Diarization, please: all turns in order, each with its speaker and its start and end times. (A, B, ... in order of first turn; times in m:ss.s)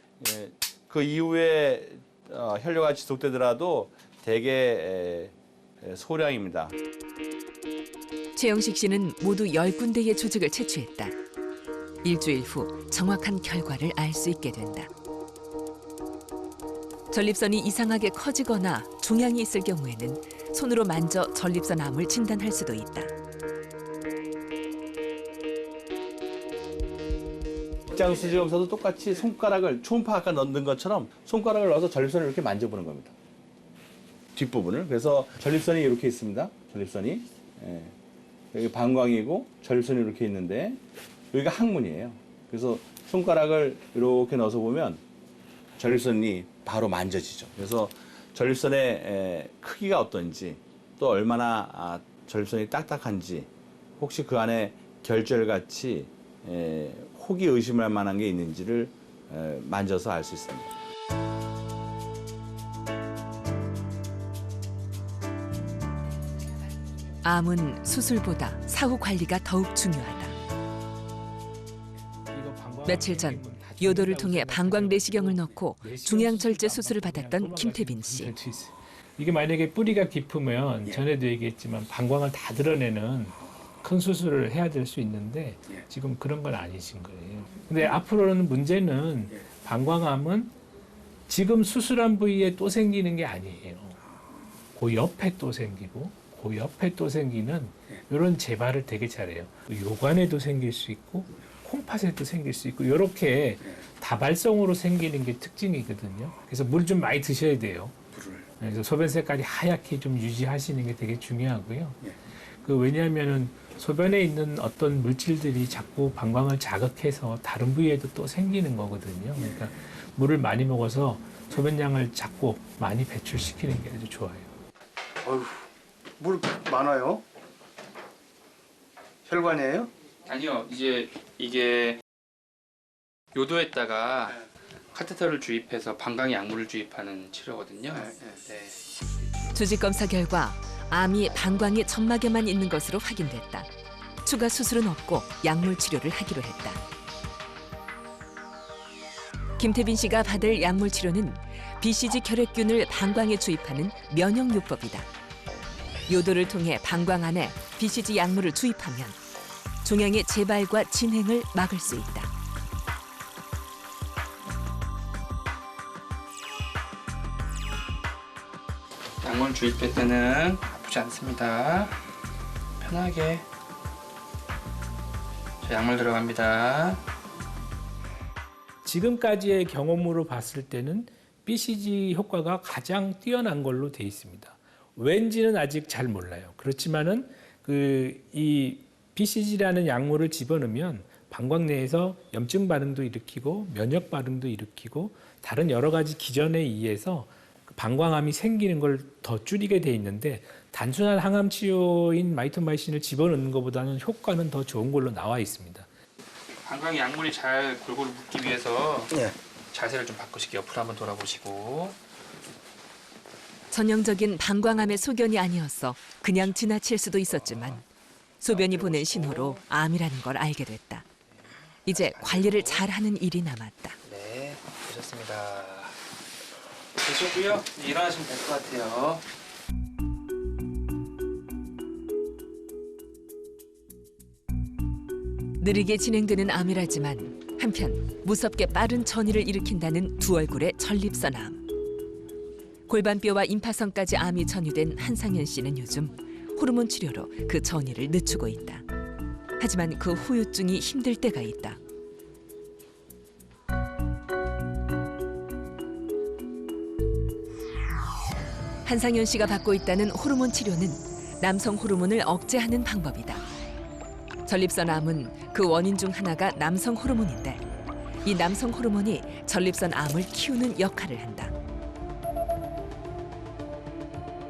0:00.2-0:06.7 A
0:08.3-0:11.1 B
0:12.0-0:14.9 B
0:17.1-0:23.1 B
0:27.9-0:33.1 A
0:34.3-0:37.9 A
0:38.5-0:45.0 A
0:45.8-1:00.7 A
1:07.2-1:10.3 B
1:12.3-1:30.5 C
1:12.8-1:18.3 B
1:31.3-1:34.0 C
1:34.7-1:48.0 C
1:48.1-1:48.4 D
1:48.6-1:52.1 C
1:52.6-2:04.5 C
2:05.2-2:05.6 D
2:06.2-2:07.2 D
2:09.2-2:09.9 D
2:10.2-2:12.0 E
2:13.3-2:14.4 E
2:14.9-2:18.9 E
2:19.5-2:23.7 B
2:24.2-2:26.8 B
2:29.6-2:35.1 B
2:36.1-2:39.2 B
2:39.8-2:42.3 B
2:49.2-2:52.0 E
2:52.8-2:53.4 E
2:55.6-2:57.0 E
2:58.8-3:25.8 C
3:26.6-3:29.1 E
3:29.7-3:32.0 E
3:33.7-3:37.8 B
3:38.4-3:41.0 B
3:38.4-3:39.6 E
3:41.8-3:44.0 B
3:41.9-3:42.8 E
3:44.0-3:46.0 E
3:47.0-3:49.2 E
3:55.6-4:01.6 B
4:02.9-4:08.8 B
4:09.6-4:11.8 B
4:18.8-4:23.4 B
4:24.4-4:27.6 B
4:28.2-4:31.5 B